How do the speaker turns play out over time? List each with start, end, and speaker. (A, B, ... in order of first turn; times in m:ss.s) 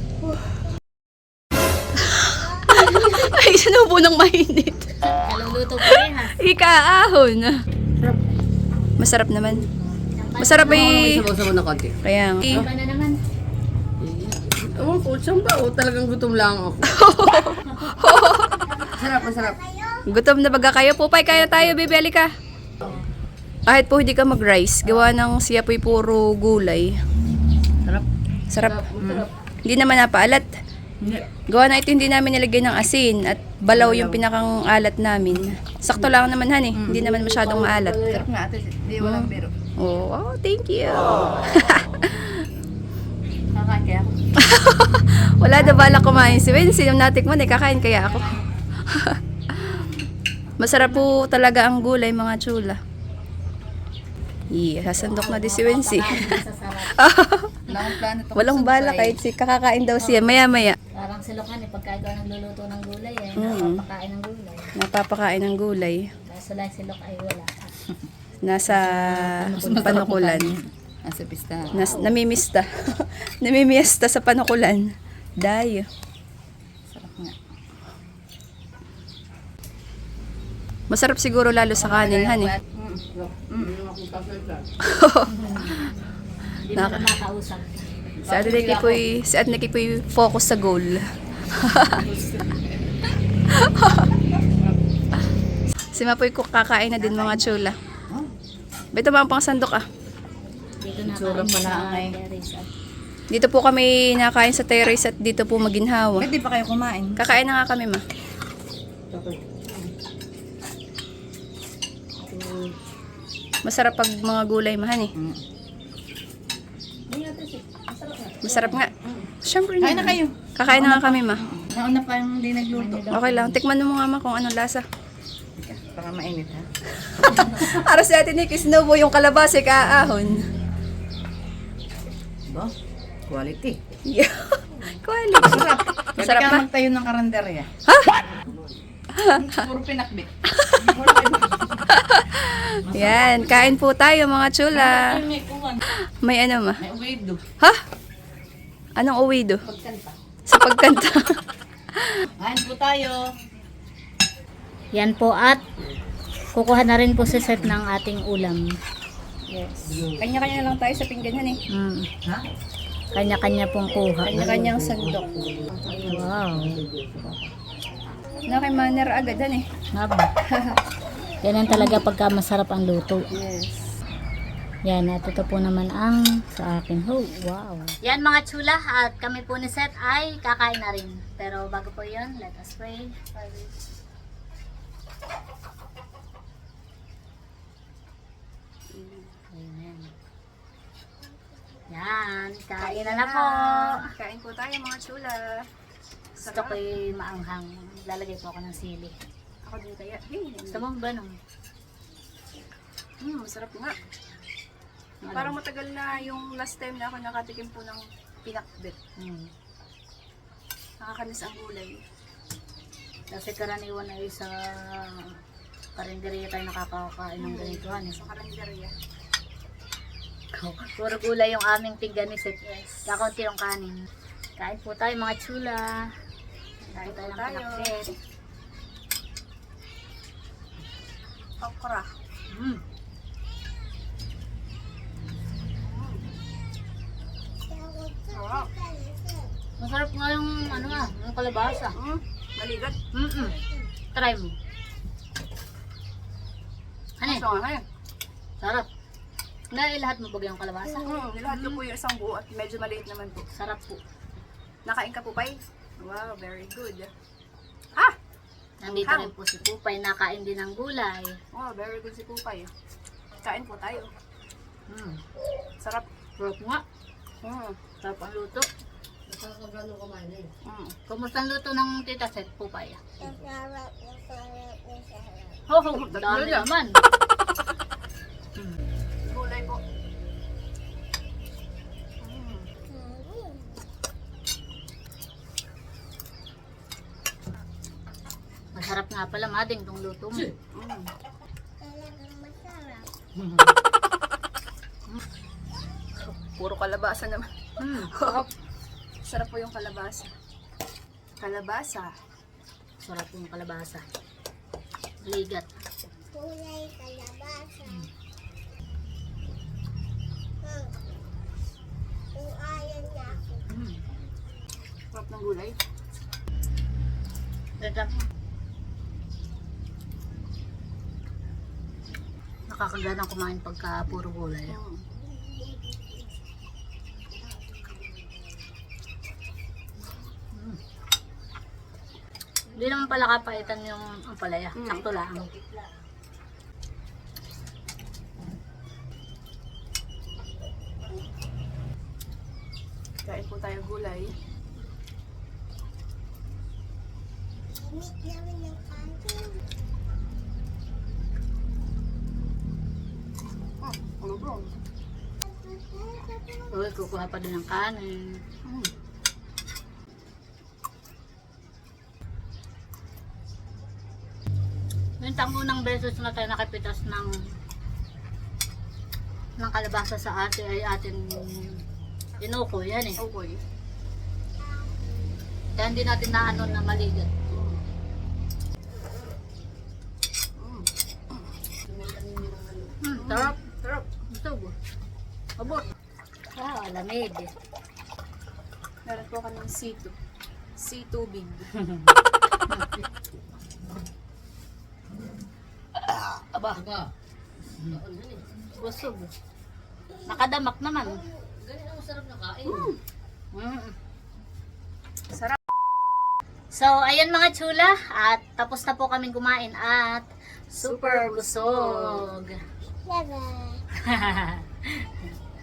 0:02.0-0:04.9 A
0:05.0-0:06.4 B
0:06.4-0:07.6 A
0:09.0-0:09.6 A
0:10.1-0:11.2 B
0:10.4-0:11.2 A
0:10.6-0:11.9 C
0:12.0-0:12.6 A
0:12.5-0:13.2 B
0:14.0-0:17.0 C
0:16.8-0:18.8 A
0:18.8-0:19.6 C
0:19.1-0:20.1 D
0:20.1-0:22.3 A
0:21.4-0:21.7 C
0:23.7-0:27.0 A
0:27.8-0:29.3 C
0:28.5-0:28.9 A
0:29.6-0:30.5 A
0:31.0-0:31.3 C
0:31.5-0:38.2 A
0:33.7-0:34.2 C
0:36.7-0:39.5 C
0:39.0-0:42.5 A
0:43.5-0:44.4 C
0:44.4-0:50.0 A
0:45.7-0:46.2 C
0:48.0-0:48.5 C
0:50.6-0:52.8 A
0:54.5-0:57.7 A
0:55.0-0:57.0 B
0:57.7-0:59.2 C
0:58.3-1:00.8 A
1:00.0-1:00.3 B
1:00.9-1:04.7 B
1:03.4-1:03.8 A
1:04.8-1:06.1 A
1:06.2-1:07.7 B
1:08.4-1:10.5 A
1:08.8-1:11.8 C
1:09.3-1:10.5 B
1:11.7-1:15.9 A
1:11.8-1:12.1 B
1:16.9-1:17.4 C
1:20.9-1:22.5 A
1:21.8-1:24.7 C
1:24.8-1:25.9 A
1:25.3-1:25.8 B
1:26.6-1:27.9 B
1:26.7-1:27.1 A
1:28.2-1:29.0 C
1:28.2-1:32.0 A
1:31.8-1:32.9 C
1:33.5-1:34.1 A
1:33.9-1:34.8 C
1:35.9-1:37.8 A
1:38.9-1:39.8 A
1:40.8-1:42.7 B
1:41.0-1:42.2 C
1:43.3-1:46.3 A
1:46.2-1:47.2 C
1:47.2-1:48.0 A
1:49.1-1:49.9 C
1:52.2-1:52.8 C
1:53.6-1:55.1 A
1:55.2-1:55.4 C
1:57.1-2:03.0 C
1:58.4-1:58.9 A
1:59.4-2:01.4 A
2:02.7-2:03.6 B
2:03.1-2:04.8 A
2:05.6-2:06.6 C
2:07.2-2:10.4 A
2:07.4-2:07.8 C
2:12.5-2:12.7 C
2:13.3-2:13.8 C
2:14.1-2:16.6 A
2:15.4-2:21.9 C
2:17.9-2:18.2 A
2:19.2-2:19.6 A
2:20.5-2:20.9 A
2:21.9-2:25.2 A
2:22.8-2:23.7 C
2:24.7-2:25.8 C
2:25.9-2:26.8 A
2:26.8-2:27.4 C
2:29.0-2:29.6 A
2:29.6-2:30.2 C
2:30.5-2:31.4 A
2:31.9-2:32.3 A
2:32.4-2:33.4 C
2:34.9-2:35.6 B
2:36.5-2:38.7 B
2:39.5-2:41.6 A
2:41.7-2:42.1 B
2:43.1-2:44.4 B
2:44.2-2:45.5 A
2:44.3-2:47.4 C
2:46.0-2:46.8 B
2:48.5-2:49.6 A
2:49.9-2:50.3 B
2:50.5-2:50.8 A
2:51.4-2:53.3 B
2:51.7-2:52.0 A
2:53.3-2:53.9 A
2:54.8-3:03.2 B
3:03.3-3:03.7 A
3:08.9-3:09.3 A
3:09.5-3:10.1 B
3:11.9-3:14.1 B
3:12.8-3:15.6 A
3:16.4-3:16.8 A
3:16.4-3:19.1 B
3:19.6-3:20.8 A
3:20.7-3:21.3 B
3:23.2-3:24.0 A
3:25.2-3:25.5 B
3:25.3-3:29.0 A
3:29.2-3:29.5 B
3:31.0-3:32.0 A
3:33.3-3:35.4 B
3:36.0-3:38.2 B
3:37.4-3:38.9 A
3:40.5-3:44.0 B
3:42.9-3:43.1 A
3:44.6-3:46.1 B
3:46.8-3:48.0 B
3:46.9-3:48.1 A
3:51.6-3:52.1 A
3:52.5-3:52.8 B
3:55.8-3:56.2 A
3:57.6-3:59.5 D
3:58.3-3:58.7 A
3:59.8-4:01.9 B
4:01.9-4:03.0 A
4:03.1-4:03.6 B
4:04.1-4:04.5 B
4:07.2-4:07.4 B
4:07.2-4:07.8 A
4:08.6-4:08.9 B
4:09.7-4:11.8 B
4:11.0-4:13.4 A
4:13.5-4:14.0 B
4:14.8-4:17.1 A
4:18.8-4:21.4 B
4:18.8-4:19.3 A
4:21.5-4:22.7 A
4:23.4-4:24.1 A
4:24.9-4:25.2 B
4:26.4-4:26.8 B
4:27.4-4:27.8 A
4:28.0-4:28.7 B
4:29.3-4:30.5 C
4:30.6-4:30.9 A
4:31.1-4:33.0 B
4:33.2-4:35.6 D
4:35.7-4:37.0 B
4:35.9-4:36.7 A
4:39.2-4:39.8 A
4:42.2-4:42.7 A
4:42.9-4:43.8 D
4:48.7-4:50.5 B
4:50.6-4:51.1 A
4:51.8-4:53.1 D
4:53.3-4:53.7 B
4:56.2-4:57.5 A
4:57.8-4:58.5 B
4:58.1-4:58.4 A
4:59.2-5:00.3 A
5:01.4-5:02.1 A
5:03.0-5:04.0 B
5:05.2-5:05.7 B
5:06.3-5:08.1 D
5:10.6-5:11.1 D
5:12.3-5:13.6 D
5:13.7-5:14.0 B
5:15.1-5:15.8 A
5:17.8-5:18.2 B
5:22.7-5:24.8 B
5:24.7-5:25.0 A
5:30.5-5:30.8 B
5:32.7-5:35.5 B
5:34.7-5:35.6 A
5:43.2-5:44.3 A
5:47.7-5:49.6 D
5:53.8-5:54.7 A
5:55.4-5:56.7 D
5:56.7-5:58.4 B
5:58.6-5:58.9 A
6:05.2-6:07.4 B
6:09.6-6:11.8 B
6:12.4-6:13.2 B
6:13.2-6:13.6 A
6:15.8-6:17.3 B
6:17.5-6:17.8 A
6:20.6-6:21.5 A
6:21.9-6:22.8 C
6:23.0-6:23.6 B
6:23.1-6:24.0 A
6:24.3-6:24.7 B
6:25.6-6:25.8 B
6:26.5-6:27.5 B
6:29.0-6:30.1 A
6:30.8-6:31.7 A
6:31.7-6:32.1 B
6:36.8-6:37.1 C
6:37.9-6:38.4 C
6:38.7-6:39.3 B
6:40.2-6:41.2 B
6:41.6-6:42.6 C
6:42.6-6:43.0 A
6:43.5-6:43.9 B
6:45.3-6:45.6 A
6:46.7-6:52.6 B
6:50.8-6:52.2 A
6:53.0-6:53.8 D
6:54.0-6:55.2 B